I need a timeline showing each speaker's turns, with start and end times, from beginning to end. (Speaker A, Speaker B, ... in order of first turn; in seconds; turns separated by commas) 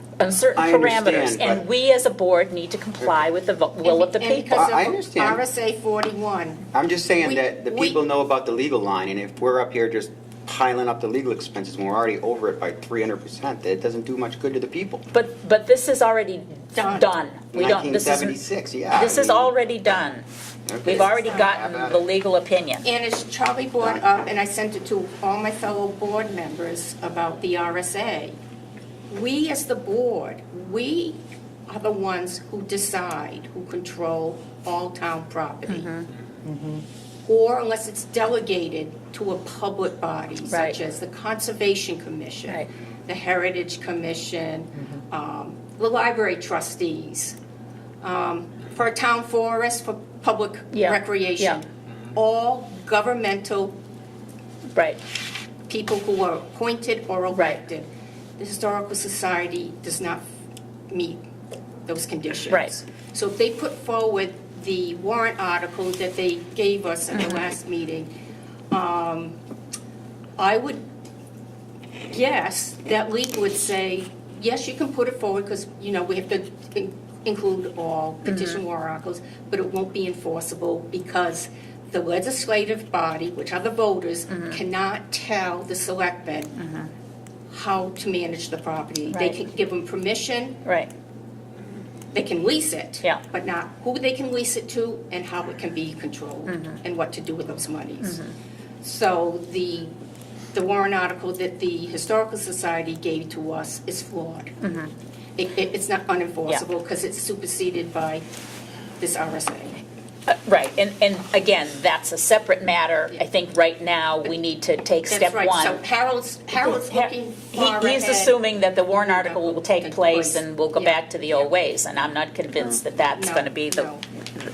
Speaker A: 0.2-4.6, Speaker B: 0.6-1.6, Speaker C: 3.8-6.7, Speaker B: 4.5-5.4, Speaker B: 6.7-15.0, Speaker C: 7.2-8.0, Speaker A: 15.1-18.4, Speaker C: 16.7-17.1, Speaker B: 17.5-19.5, Speaker A: 18.9-20.2, Speaker B: 20.7-22.0, Speaker A: 20.8-22.9, Speaker C: 22.8-28.3, Speaker C: 29.1-35.9, Speaker A: 35.7-36.1, Speaker C: 37.2-47.4, Speaker A: 40.5-40.7, Speaker C: 48.0-53.8, Speaker A: 50.7-51.6, Speaker A: 54.7-55.0, Speaker C: 55.7-57.9, Speaker A: 57.3-57.6, Speaker C: 58.4-60.2, Speaker C: 60.9-61.2, Speaker C: 61.9-68.1, Speaker A: 62.5-62.7, Speaker C: 68.7-69.4, Speaker C: 70.4-70.9, Speaker C: 72.1-86.6, Speaker A: 78.2-78.6, Speaker A: 84.3-84.6, Speaker A: 86.6-86.9, Speaker C: 87.5-90.6, Speaker A: 89.1-89.3, Speaker A: 90.6-90.9, Speaker C: 92.1-98.2, Speaker A: 96.5-96.8, Speaker A: 98.0-98.3, Speaker C: 98.8-99.9, Speaker C: 100.5-104.6, Speaker A: 104.6-104.9, Speaker C: 105.4-108.3, Speaker C: 109.0-109.8, Speaker A: 110.3-115.8, Speaker C: 115.1-118.4, Speaker A: 116.6-123.9, Speaker C: 118.9-121.5, Speaker C: 123.1-124.0